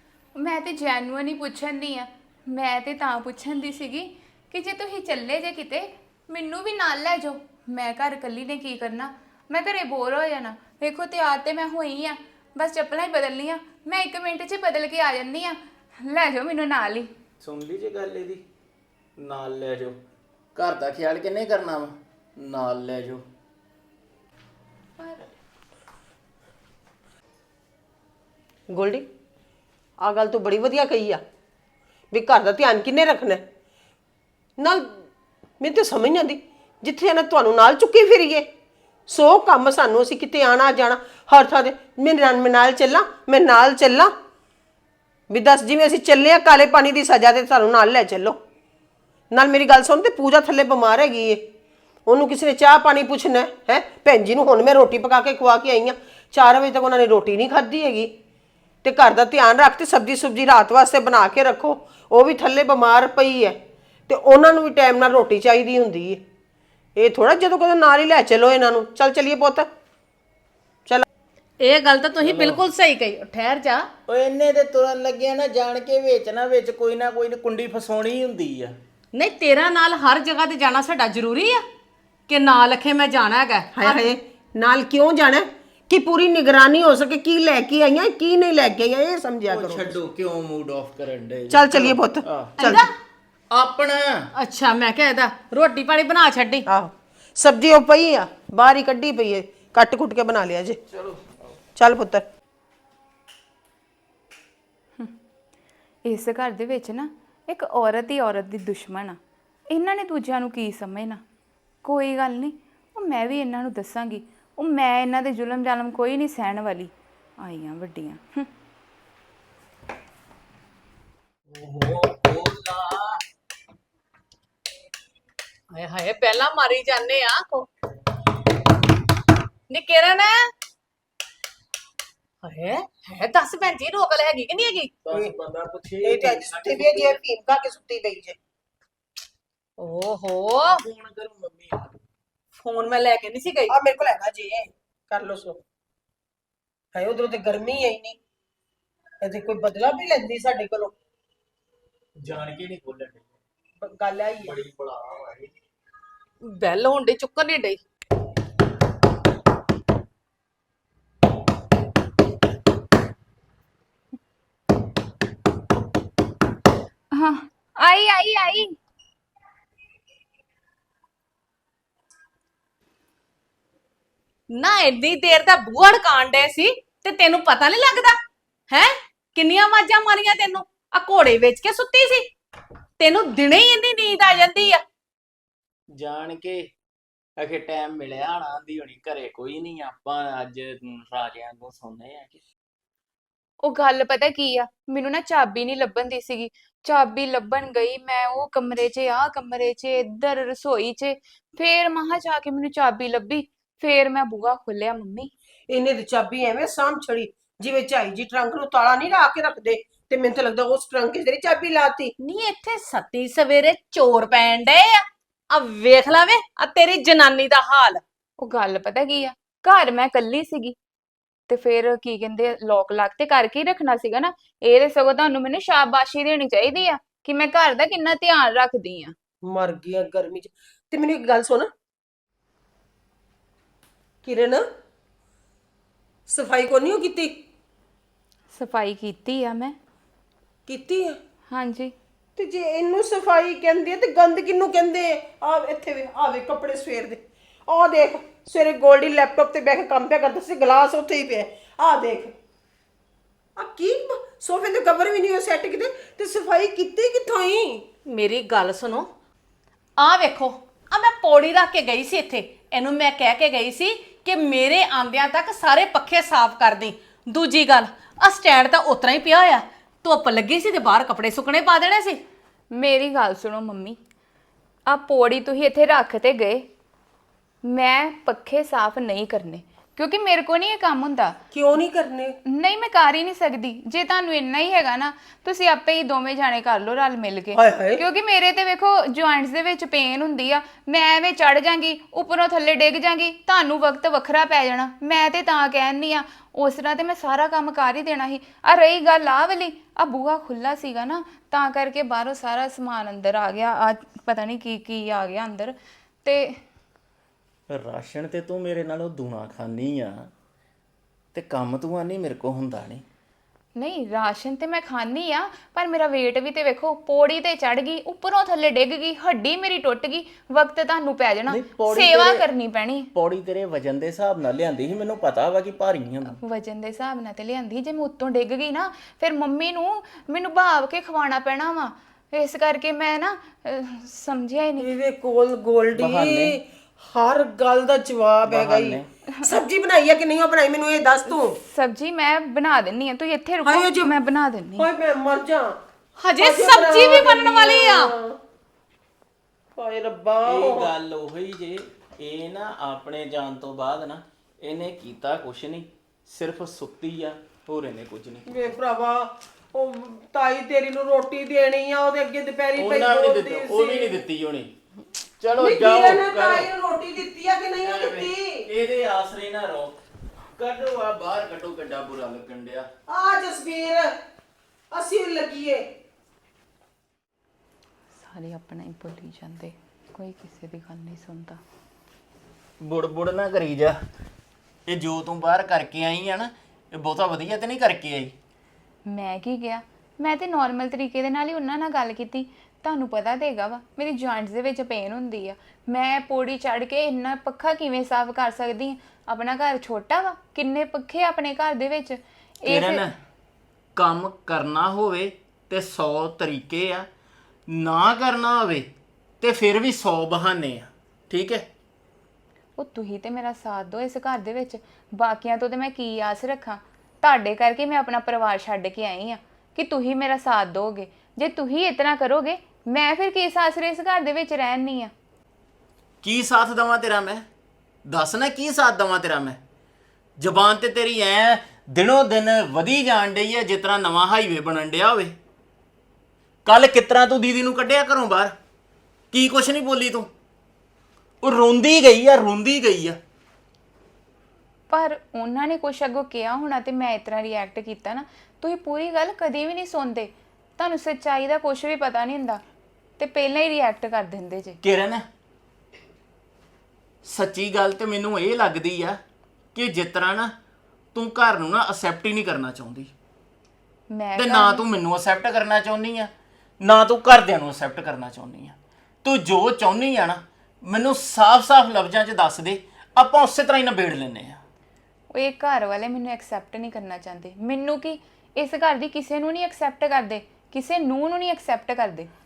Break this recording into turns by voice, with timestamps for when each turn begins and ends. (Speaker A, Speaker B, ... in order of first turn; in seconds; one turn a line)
Speaker A: 0.3-17.1
Speaker B: 17.4-18.4
Speaker B: 19.2-20.0
Speaker B: 20.5-23.2
Speaker A: 25.0-25.3
Speaker C: 28.7-29.1
Speaker C: 30.0-31.2
Speaker C: 32.1-33.4
Speaker C: 34.6-35.0
Speaker C: 35.6-38.4
Speaker C: 39.1-44.1
Speaker C: 45.3-48.4
Speaker C: 49.3-51.4
Speaker C: 52.1-58.1
Speaker C: 58.8-63.6
Speaker C: 64.1-66.2
Speaker C: 67.0-69.7
Speaker D: 71.6-73.9
Speaker B: 72.2-72.6
Speaker B: 74.1-78.8
Speaker D: 79.1-81.6
Speaker D: 82.3-84.1
Speaker C: 83.8-90.0
Speaker B: 89.5-92.5
Speaker C: 91.5-92.9
Speaker D: 92.6-92.9
Speaker B: 93.5-94.2
Speaker D: 94.3-96.7
Speaker C: 96.7-100.8
Speaker B: 100.9-101.4
Speaker C: 101.8-102.2
Speaker A: 106.0-109.2
Speaker A: 109.7-111.2
Speaker A: 111.8-118.5
Speaker B: 121.5-123.0
Speaker D: 125.7-127.7
Speaker D: 129.7-130.5
Speaker D: 132.4-135.0
Speaker B: 135.1-137.2
Speaker C: 136.0-138.4
Speaker D: 139.8-140.8
Speaker B: 140.7-141.9
Speaker D: 142.6-143.8
Speaker C: 143.7-145.6
Speaker C: 146.9-148.2
Speaker C: 149.2-150.9
Speaker B: 152.2-153.2
Speaker C: 153.8-154.5
Speaker B: 154.4-155.5
Speaker D: 156.4-157.8
Speaker A: 167.1-168.8
Speaker D: 174.5-178.2
Speaker D: 178.7-182.3
Speaker D: 183.0-184.8
Speaker B: 185.9-186.7
Speaker B: 187.4-192.4
Speaker A: 193.6-205.3
Speaker C: 205.7-212.1
Speaker D: 212.2-218.0
Speaker A: 218.4-220.8
Speaker A: 221.5-229.2
Speaker C: 229.5-231.7
Speaker C: 234.2-234.6
Speaker C: 236.3-237.3
Speaker A: 238.5-239.8
Speaker C: 240.7-241.2
Speaker A: 241.5-241.9
Speaker C: 242.4-252.3
Speaker C: 253.6-257.8
Speaker D: 258.1-259.1
Speaker D: 260.0-272.2
Speaker A: 272.7-274.0
Speaker A: 274.9-276.7
Speaker A: 277.6-281.4
Speaker C: 281.5-282.3
Speaker A: 282.5-306.6
Speaker C: 287.6-288.0
Speaker B: 307.7-310.3
Speaker B: 311.3-313.0
Speaker A: 313.8-323.1
Speaker B: 321.5-322.4
Speaker B: 323.1-326.4
Speaker A: 326.4-334.9
Speaker C: 334.8-341.6
Speaker B: 335.9-336.6
Speaker B: 338.4-339.1
Speaker A: 341.3-344.9
Speaker C: 343.6-344.1
Speaker C: 344.8-345.8
Speaker D: 346.2-348.1
Speaker C: 346.4-348.4
Speaker C: 349.8-350.9
Speaker B: 350.4-358.4
Speaker C: 358.5-364.2
Speaker B: 362.8-364.7
Speaker B: 365.4-366.7
Speaker C: 365.6-368.6
Speaker B: 367.8-369.9
Speaker B: 370.6-372.9
Speaker C: 373.1-374.1
Speaker C: 374.9-375.8
Speaker A: 378.1-381.6
Speaker B: 382.8-384.0
Speaker B: 384.9-388.3
Speaker A: 389.1-403.0
Speaker B: 402.6-403.1
Speaker B: 403.9-407.1
Speaker B: 407.7-408.9
Speaker B: 409.4-411.6
Speaker A: 412.8-425.1
Speaker B: 426.2-427.4
Speaker B: 428.1-429.6
Speaker B: 430.4-435.3
Speaker B: 436.6-438.5
Speaker B: 439.3-440.3
Speaker B: 441.4-443.2
Speaker A: 444.9-452.6
Speaker A: 453.2-454.8
Speaker B: 454.8-455.2
Speaker B: 457.2-459.2
Speaker B: 459.7-460.5
Speaker B: 461.1-463.1
Speaker A: 464.1-464.9
Speaker B: 464.4-474.6
Speaker A: 475.3-482.3